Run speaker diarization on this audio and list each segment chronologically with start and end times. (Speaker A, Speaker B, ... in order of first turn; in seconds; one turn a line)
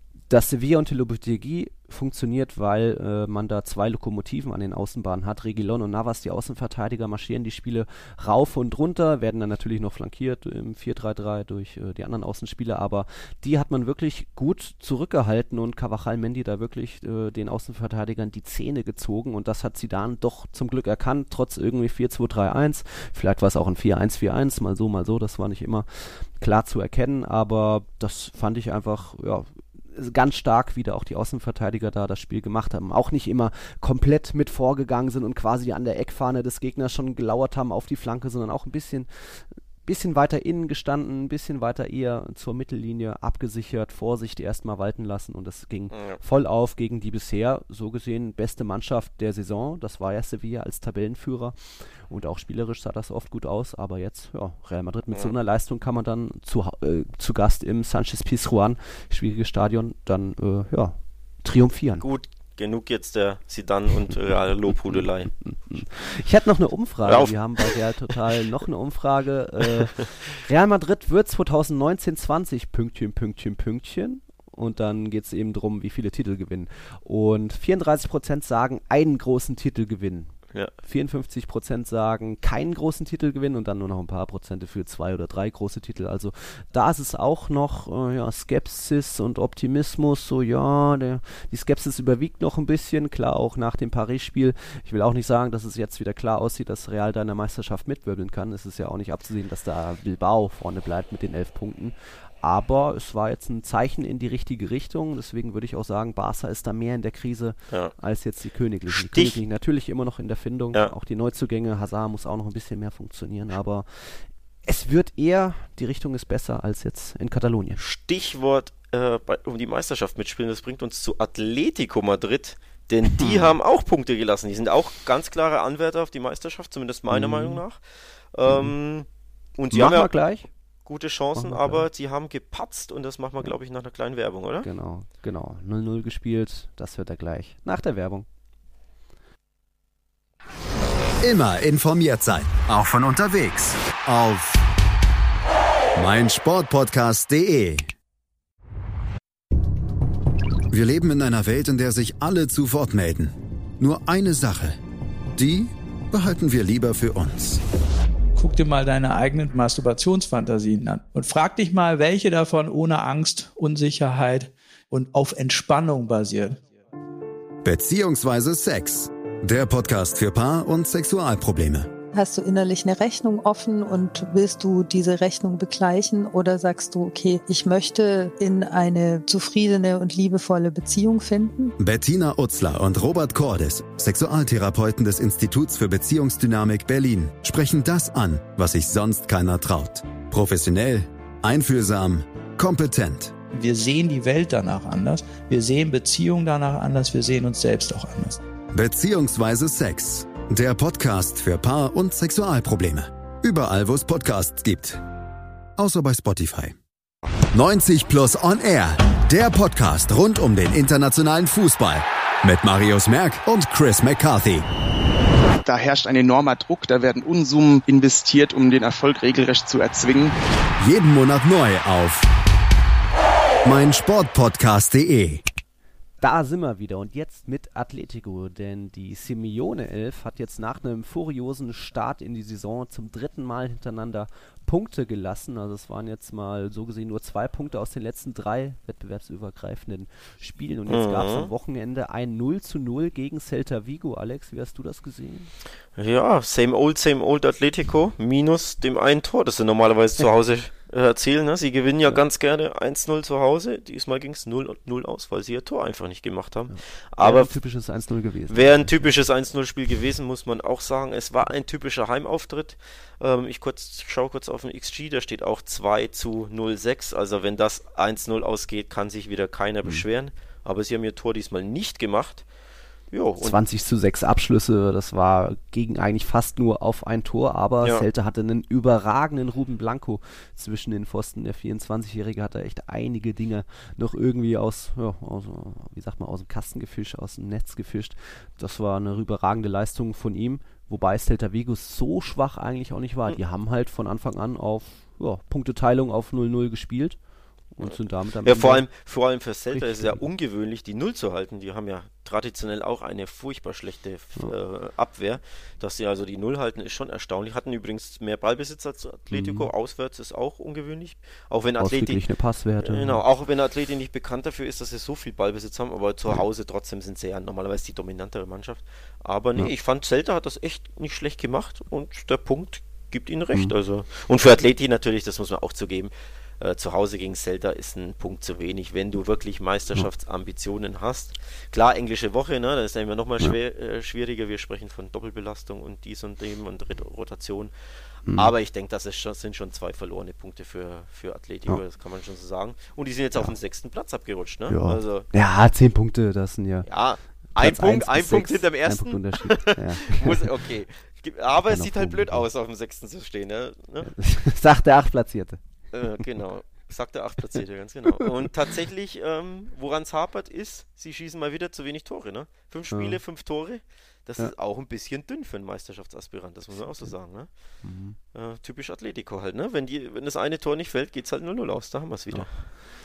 Speaker A: 0.3-62.0
Speaker B: 45.9-46.2
Speaker B: 62.0-65.3
Speaker A: 64.7-117.8
Speaker B: 67.0-68.1
Speaker B: 69.6-70.0
Speaker B: 108.9-109.4
Speaker B: 117.8-129.1
Speaker A: 123.2-123.6
Speaker A: 127.1-127.6
Speaker A: 128.4-128.7
Speaker B: 129.6-130.1
Speaker A: 129.7-130.5
Speaker B: 130.9-134.7
Speaker A: 131.4-131.9
Speaker A: 134.6-138.3
Speaker C: 141.2-144.6
Speaker C: 145.9-147.9
Speaker C: 150.7-154.8
Speaker C: 155.3-157.6
Speaker D: 158.4-166.6
Speaker C: 167.6-171.9
Speaker E: 172.1-181.7
Speaker C: 181.8-193.3
Speaker D: 193.5-198.4
Speaker C: 198.7-205.0
Speaker C: 205.8-206.7
Speaker C: 207.5-214.7
Speaker F: 215.6-220.3
Speaker C: 220.8-222.3
Speaker C: 223.6-225.4
Speaker A: 226.2-245.5
Speaker B: 240.9-241.5
Speaker B: 246.0-257.5
Speaker A: 256.7-259.1
Speaker B: 258.5-272.4
Speaker B: 273.1-273.6
Speaker A: 273.4-297.2
Speaker A: 297.7-298.9
Speaker B: 297.8-312.2
Speaker A: 299.7-300.2
Speaker A: 309.3-309.7
Speaker A: 311.8-313.2
Speaker B: 312.8-337.7
Speaker A: 338.3-338.5
Speaker B: 338.3-345.3
Speaker A: 344.7-346.9
Speaker B: 346.8-354.1
Speaker A: 347.6-350.6
Speaker A: 351.5-352.4
Speaker A: 354.0-355.6
Speaker B: 355.9-367.5
Speaker A: 362.9-363.2
Speaker A: 367.8-368.2
Speaker B: 368.3-372.5
Speaker A: 372.3-372.6